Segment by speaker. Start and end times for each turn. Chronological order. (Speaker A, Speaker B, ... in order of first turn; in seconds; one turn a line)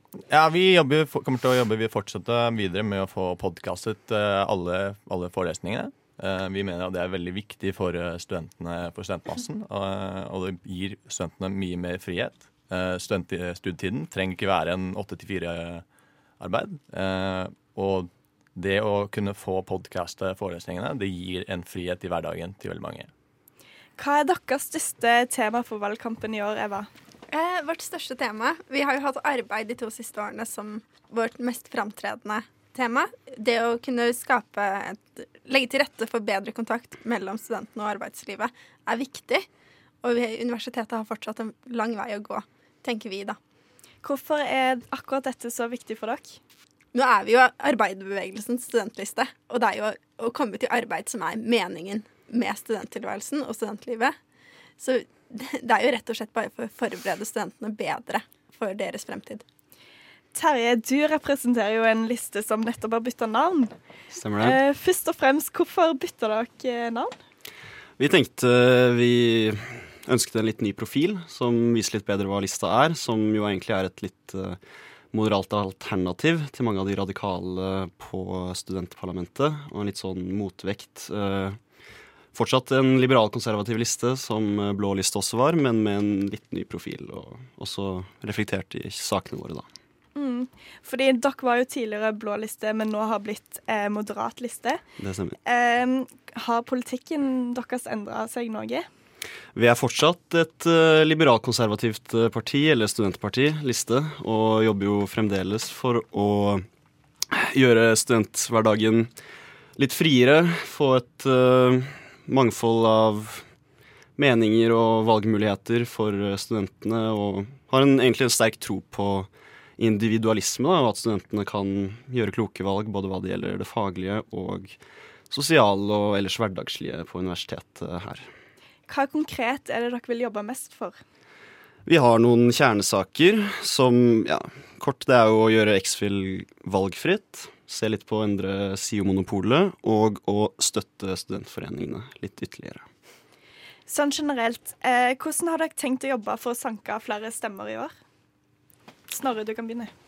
Speaker A: 0.3-15.8
Speaker A: 16.4-23.1
Speaker B: 24.0-26.9
Speaker C: 27.3-39.5
Speaker C: 40.0-43.4
Speaker B: 44.0-46.4
Speaker C: 46.9-54.1
Speaker C: 54.8-59.4
Speaker B: 60.3-63.7
Speaker D: 64.1-64.6
Speaker B: 64.4-67.1
Speaker D: 68.0-74.6
Speaker D: 75.1-81.6
Speaker D: 82.3-89.7
Speaker B: 90.2-94.8
Speaker D: 95.0-95.3
Speaker B: 95.4-98.9
Speaker D: 99.5-106.6
Speaker D: 107.3-109.1
Speaker D: 109.8-113.4
Speaker D: 114.2-124.8
Speaker D: 125.3-128.3
Speaker B: 128.9-131.0
Speaker D: 131.8-142.8
Speaker B: 143.9-147.9
Speaker B: 149.1-149.9